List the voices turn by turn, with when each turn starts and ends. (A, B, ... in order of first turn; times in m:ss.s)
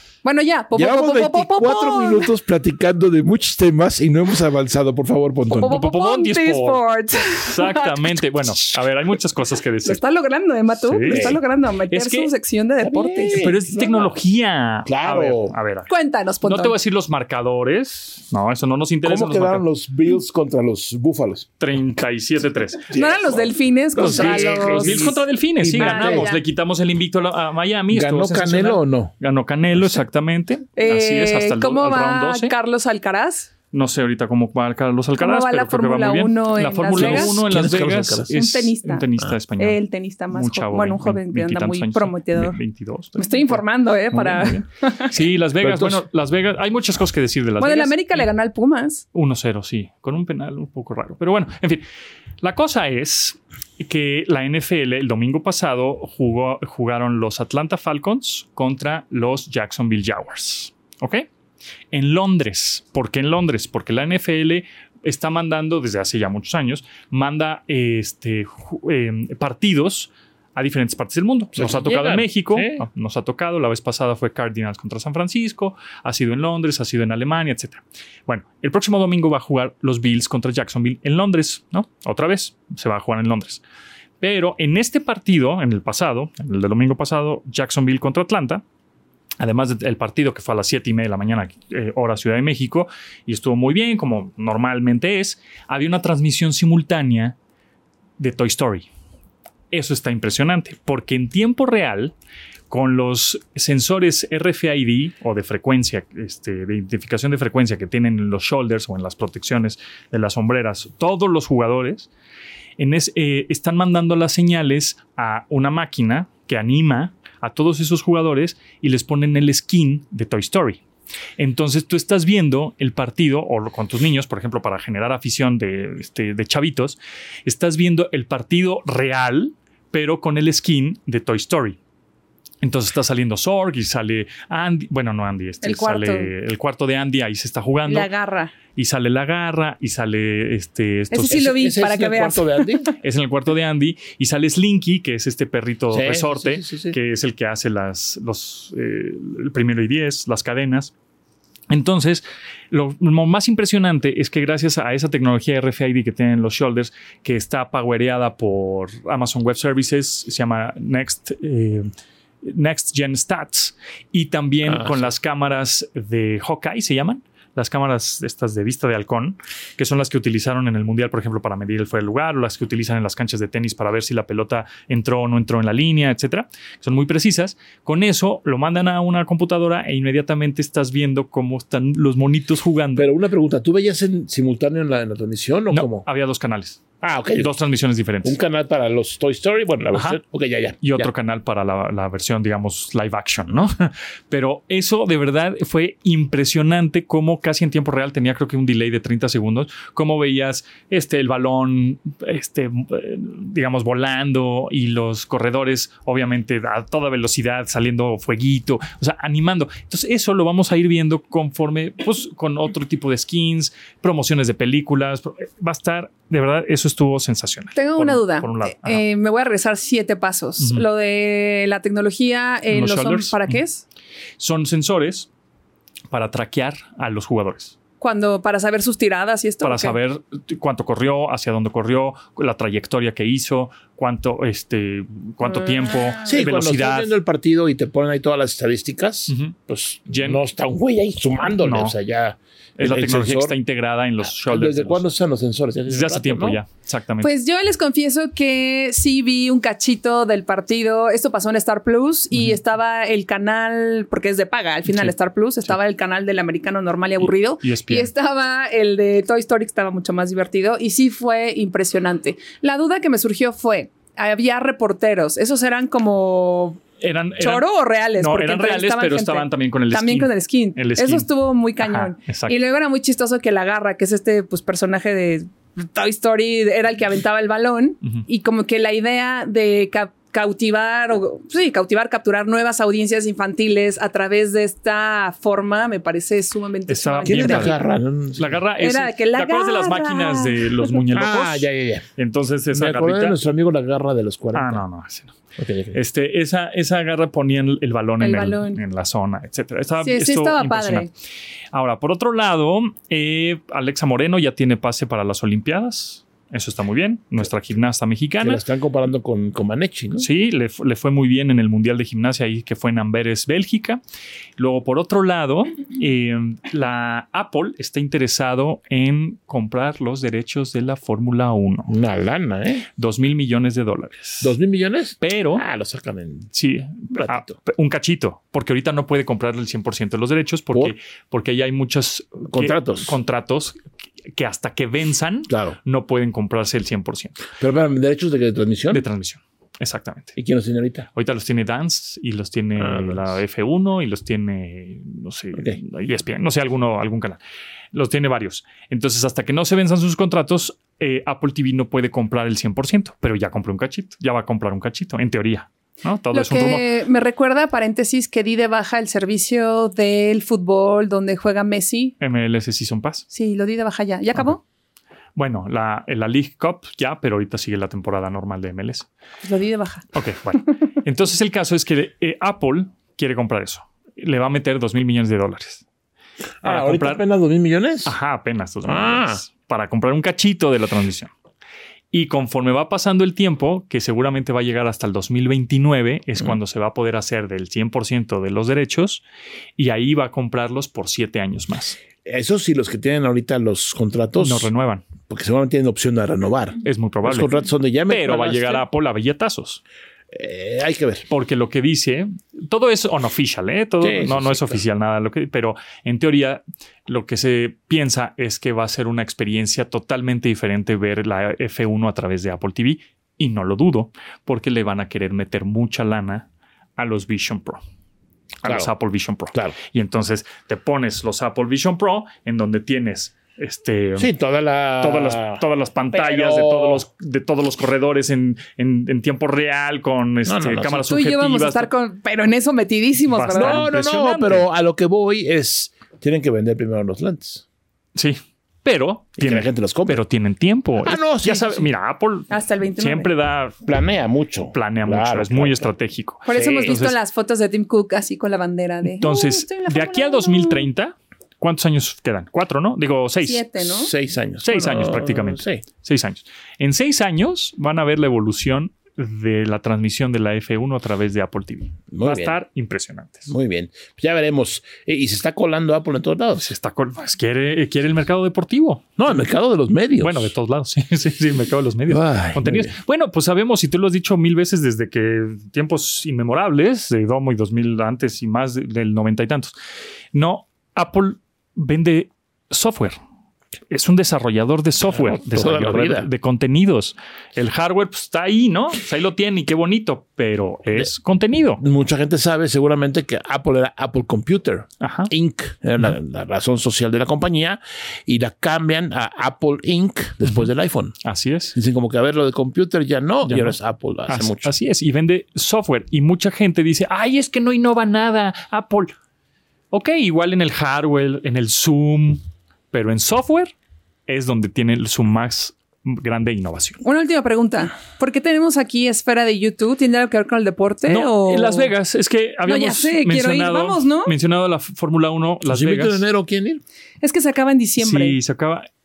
0:00.2-0:02.3 A
0:00.8-0:05.8 B
0:05.5-0:08.2 A
0:05.6-0:10.0 C
0:09.8-0:13.4 A
0:10.8-0:12.3 C
0:11.1-0:11.4 B
0:12.8-0:14.2 B
0:13.3-0:15.9 C
0:14.8-0:15.6 B
0:15.9-0:16.8 A
0:16.4-0:19.6 C
0:19.0-0:21.5 B
0:21.6-0:22.9 C
0:22.9-0:26.3 B
0:22.9-0:25.2 A
0:24.0-0:32.5 C
0:25.8-0:26.4 A
0:27.9-0:29.1 B
0:30.8-0:33.5 A
0:33.7-0:48.3 C
0:35.2-0:37.4 A
0:36.9-0:38.3 B
0:38.3-0:39.0 A
0:39.6-0:42.6 A
0:43.2-0:45.1 A
0:45.6-0:46.0 B
0:47.6-0:49.0 A
0:49.1-0:51.8 C
0:52.4-1:01.3 C
1:01.9-1:23.6 C
1:11.6-1:12.9 B
1:24.2-1:28.6 C
1:29.4-1:37.4 C
1:38.2-1:38.9 C
1:39.7-1:42.1 C
1:42.7-1:52.1 C
1:52.8-2:00.8 C
2:01.4-2:11.8 C
2:12.6-2:18.1 C
2:15.6-2:16.3 A
2:17.9-2:18.5 A
2:18.8-2:21.5 C
2:21.1-2:22.8 A
2:21.2-2:22.9 B
2:23.0-2:30.9 C
2:25.9-2:27.0 B
2:31.7-2:41.9 C
2:42.4-3:03.1 C
2:44.6-2:45.1 B
3:03.0-3:06.0 B
3:05.7-3:06.8 C
3:07.0-3:07.5 B
3:07.4-3:08.4 C
3:08.2-3:11.1 B
3:09.9-3:10.2 C
3:10.8-3:39.0 C
3:37.8-3:43.8 A
3:40.6-3:40.8 C
3:42.7-3:43.6 C
3:44.4-3:45.3 C
3:46.1-3:47.8 C
3:48.0-3:50.0 A
3:49.6-3:57.1 C
3:56.3-4:03.6 B
3:59.3-3:59.6 C
4:00.1-4:00.4 C
4:01.6-4:02.0 C
4:02.8-4:05.0 C
4:04.4-4:06.6 B
4:05.9-4:07.3 C
4:07.2-4:26.8 A
4:12.3-4:12.6 C
4:14.9-4:15.1 C
4:17.2-4:18.1 C
4:27.0-4:32.6 C
4:27.4-4:47.8 A
4:46.9-4:47.8 C
4:47.3-4:48.6 B
4:48.4-4:53.4 C
4:48.8-4:50.9 A
4:51.1-4:52.1 B
4:52.7-4:54.8 B
4:54.5-4:55.4 C
4:55.6-4:56.0 B
4:55.9-5:01.1 C
4:58.2-4:58.8 A
5:00.0-5:01.1 A
5:01.7-5:08.6 C
5:08.4-5:10.3 B
5:10.2-5:14.0 C
5:14.6-5:21.9 C
5:21.9-5:22.9 B
5:23.0-5:24.6 C
5:24.4-5:26.5 B
5:25.2-5:25.6 C
5:26.5-5:33.8 C
5:27.1-5:27.6 B
5:32.5-5:33.2 B
5:34.3-5:37.4 C
5:35.5-5:35.8 B
5:37.6-5:39.0 B
5:38.9-5:40.4 C
5:40.4-5:41.1 B
5:41.2-5:47.4 C
5:42.8-5:43.4 B
5:47.9-5:56.9 C
5:56.3-6:02.2 A
6:02.2-6:03.3 C
6:03.3-6:04.6 A
6:05.4-6:09.1 C
6:09.4-6:10.1 A
6:10.1-6:15.8 C
6:16.6-6:18.2 B
6:16.6-6:17.2 C
6:18.0-6:21.3 C
6:18.8-6:19.4 B
6:22.1-6:29.2 C
6:29.8-6:32.0 C
6:32.2-6:34.7 B
6:34.4-6:35.1 C
6:35.3-6:38.9 B
6:36.8-6:39.8 C
6:40.3-6:41.3 B
6:41.3-6:57.8 C
6:44.0-6:44.8 B
6:58.6-7:04.3 C
6:58.6-6:58.9 B
7:04.2-7:07.0 B
7:05.0-7:11.9 C
7:10.5-7:11.1 B
7:11.1-7:13.8 A
7:13.3-7:14.7 C
7:13.6-7:17.6 B
7:18.2-7:23.8 C
7:19.4-7:20.2 B
7:21.0-7:21.9 B
7:22.5-7:23.3 A
7:23.8-7:25.9 B
7:24.7-7:27.2 C
7:26.4-7:30.9 A
7:26.5-7:27.0 B
7:29.0-7:33.7 C
7:33.4-7:34.1 A
7:33.8-7:35.8 B
7:34.6-7:43.5 C
7:42.1-7:42.6 B
7:43.5-7:46.7 B
7:46.6-7:49.1 C
7:49.2-7:50.5 B
7:50.2-7:59.8 C
7:52.1-7:52.9 B
8:00.3-8:03.2 C
8:03.9-8:11.8 C
8:05.1-8:06.3 B
8:11.8-8:21.2 B
8:15.0-8:15.3 C
8:21.2-8:21.8 C
8:21.8-8:24.7 B
8:23.4-8:29.1 C
8:29.9-8:33.7 C
8:34.3-8:37.0 C
8:37.0-8:41.9 A
8:41.1-8:46.2 C
8:42.7-8:44.3 A
8:45.7-8:46.8 B
8:47.2-8:48.4 A
8:48.0-8:48.9 C